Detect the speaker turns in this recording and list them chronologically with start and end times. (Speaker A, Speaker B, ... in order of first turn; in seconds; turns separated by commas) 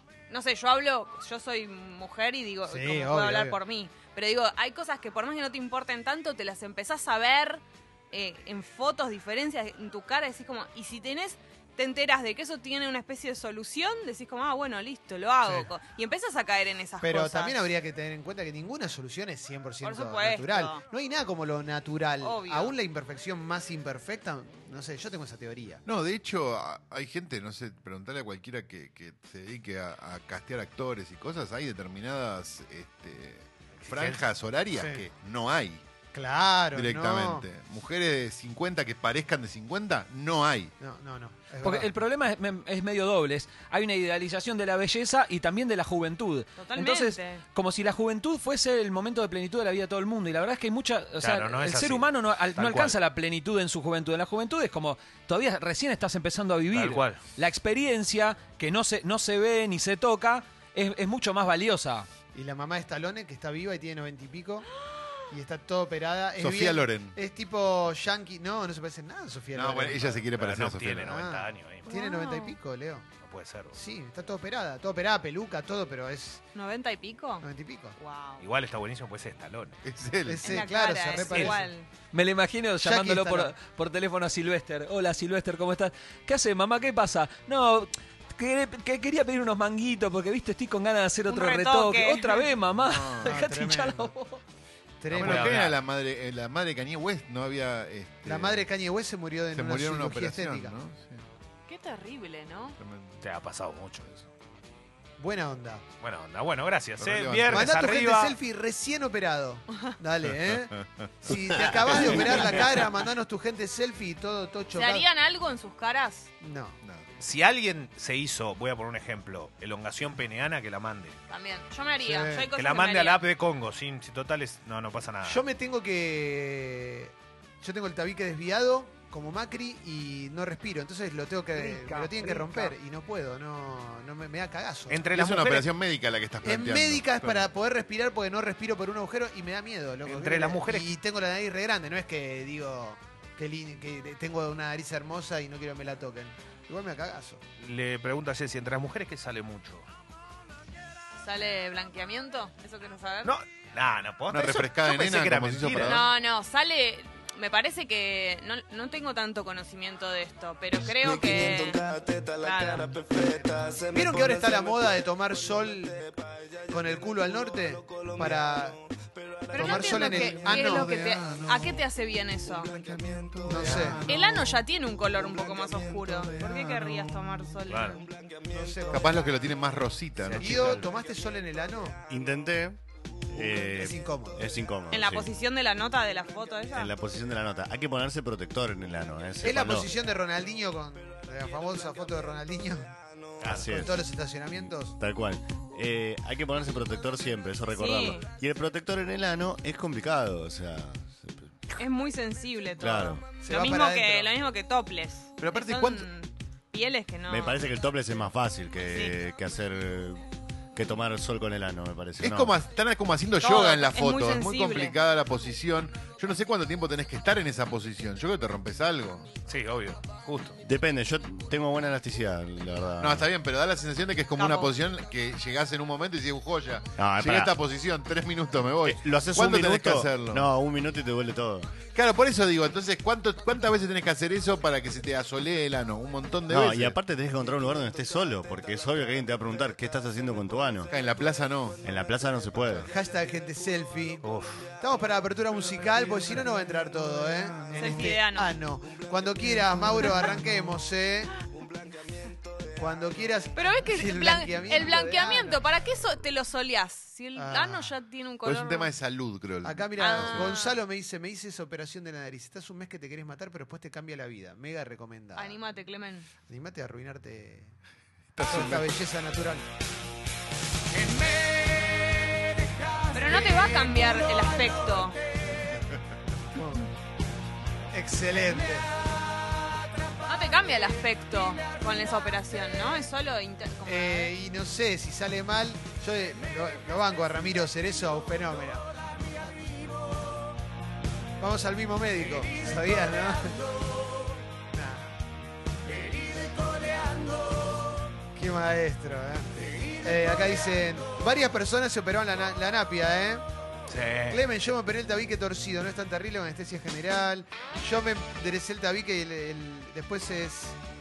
Speaker A: 0.3-17.6, Speaker B: 2.7-3.6, Speaker B: 15.4-15.7, Speaker B: 17.0-25.8, Speaker A: 19.8-20.8, Speaker A: 22.2-22.7, Speaker C: 25.9-35.8, Speaker B: 33.9-34.2, Speaker B: 34.7-35.0, Speaker B: 36.1-37.5, Speaker C: 36.7-40.7, Speaker B: 40.8-42.0, Speaker D: 41.6-62.1, Speaker A: 46.6-47.4, Speaker E: 51.2-53.0, Speaker E: 56.7-57.2, Speaker B: 62.3-64.7, Speaker A: 64.8-65.2, Speaker B: 65.3-70.2, Speaker C: 66.4-67.2, Speaker C: 69.5-71.2, Speaker E: 70.2-72.0, Speaker B: 71.0-73.1, Speaker A: 71.9-72.6, Speaker E: 73.2-73.8, Speaker B: 73.7-76.5, Speaker A: 76.5-78.4, Speaker B: 77.4-78.0, Speaker E: 78.4-79.8, Speaker C: 79.8-80.7, Speaker B: 80.2-81.7, Speaker A: 80.4-81.9, Speaker E: 81.2-81.5, Speaker D: 82.1-94.4, Speaker B: 82.8-83.5, Speaker A: 91.3-92.5, Speaker C: 92.7-93.5, Speaker B: 93.2-94.1, Speaker B: 95.0-95.5, Speaker E: 95.1-95.8, Speaker C: 95.1-98.7, Speaker B: 98.3-100.7, Speaker C: 99.5-101.2, Speaker A: 101.7-102.8, Speaker C: 102.8-103.2, Speaker E: 103.2-104.3, Speaker B: 105.2-105.8, Speaker E: 106.0-108.4, Speaker C: 107.0-107.7, Speaker B: 107.5-115.1, Speaker C: 110.3-112.5, Speaker A: 114.7-116.3, Speaker B: 116.4-116.8, Speaker C: 116.8-117.1, Speaker E: 117.2-121.2, Speaker A: 121.3-123.2, Speaker B: 122.0-122.5, Speaker E: 122.5-125.4, Speaker B: 125.2-135.1, Speaker E: 131.6-132.7, Speaker E: 134.9-135.7, Speaker C: 135.1-137.5, Speaker B: 136.4-147.4, Speaker E: 140.0-140.9, Speaker E: 147.6-149.9, Speaker A: 151.2-153.3, Speaker E: 153.2-156.0, Speaker C: 154.3-156.1, Speaker A: 155.9-162.9, Speaker B: 163.3-166.1, Speaker B: 166.7-168.8, Speaker B: 169.5-171.0, Speaker A: 169.5-172.7, Speaker C: 170.0-171.8, Speaker C: 172.5-177.2, Speaker B: 173.4-174.0, Speaker A: 174.1-178.1, Speaker E: 177.7-178.0, Speaker B: 178.5-179.3, Speaker C: 178.9-180.9, Speaker E: 180.2-180.9, Speaker B: 180.4-182.0, Speaker F: 182.1-185.3, Speaker B: 183.3-184.5, Speaker A: 184.9-186.9, Speaker F: 186.7-189.9, Speaker B: 189.4-192.9, Speaker E: 193.4-193.7, Speaker F: 193.5-201.7, Speaker B: 193.6-195.0, Speaker A: 197.7-198.3, Speaker A: 201.8-207.6, Speaker F: 202.8-203.2, Speaker B: 203.4-204.3, Speaker C: 205.4-206.1, Speaker F: 207.3-212.5, Speaker C: 212.2-219.3, Speaker A: 213.4-215.0, Speaker E: 219.5-220.6, Speaker F: 220.6-223.3, Speaker C: 223.0-230.5, Speaker A: 224.4-224.7, Speaker F: 227.0-227.5, Speaker F: 228.8-231.8, Speaker C: 231.8-237.0, Speaker F: 236.5-240.9, Speaker C: 240.9-241.8, Speaker F: 241.8-242.9, Speaker C: 242.6-242.9, Speaker B: 242.9-244.3, Speaker E: 244.2-244.7, Speaker B: 244.8-251.4, Speaker C: 247.6-248.1, Speaker A: 247.8-248.5, Speaker B: 252.8-255.6, Speaker A: 253.6-258.9, Speaker B: 257.4-257.9, Speaker C: 258.4-260.6, Speaker B: 259.6-265.6, Speaker A: 260.0-260.8, Speaker A: 265.4-266.3, Speaker B: 266.5-267.8, Speaker C: 268.4-268.9, Speaker B: 268.4-269.7, Speaker A: 273.1-275.2, Speaker B: 273.1-274.1, Speaker B: 276.5-276.9, Speaker B: 277.9-278.9, Speaker A: 280.3-284.3, Speaker B: 283.9-288.9, Speaker B: 291.4-293.8, Speaker B: 294.7-295.1, Speaker B: 298.3-303.4, Speaker E: 303.9-304.4, Speaker B: 304.3-310.8